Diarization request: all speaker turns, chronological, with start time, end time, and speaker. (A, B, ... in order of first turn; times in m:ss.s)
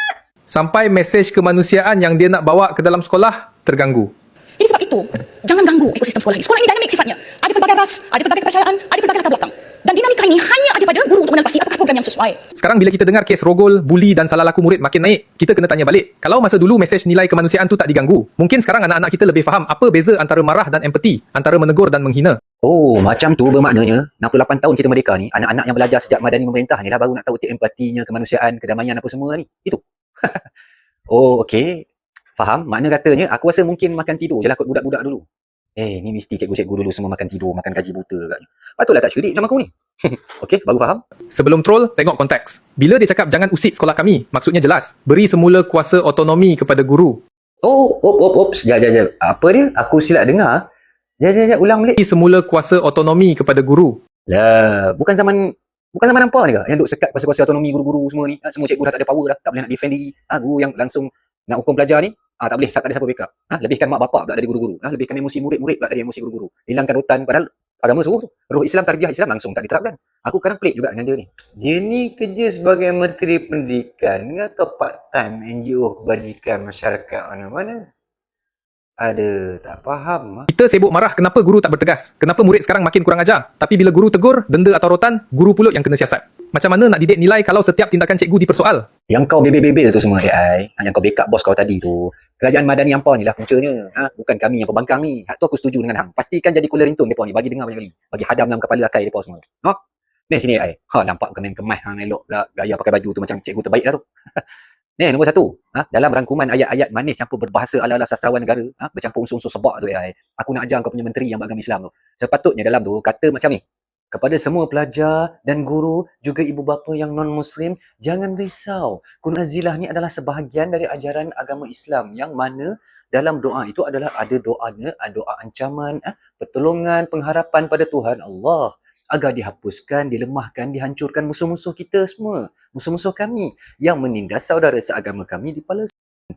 0:00.5-0:04.1 A
0:04.6-0:12.4 B
0:12.6-0:22.4 A
0:22.6-0:30.4 C
0:31.1-0:35.2 C
0:35.8-0:41.0 C
0:41.3-0:47.2 A
0:47.6-0:50.7 C
0:51.2-0:52.0 C
0:52.0-0:54.0 A
0:54.3-1:17.8 C
1:19.0-1:20.5 C
1:20.5-1:28.8 A
1:29.1-1:44.4 C
1:45.0-1:53.6 C
1:54.1-2:15.9 C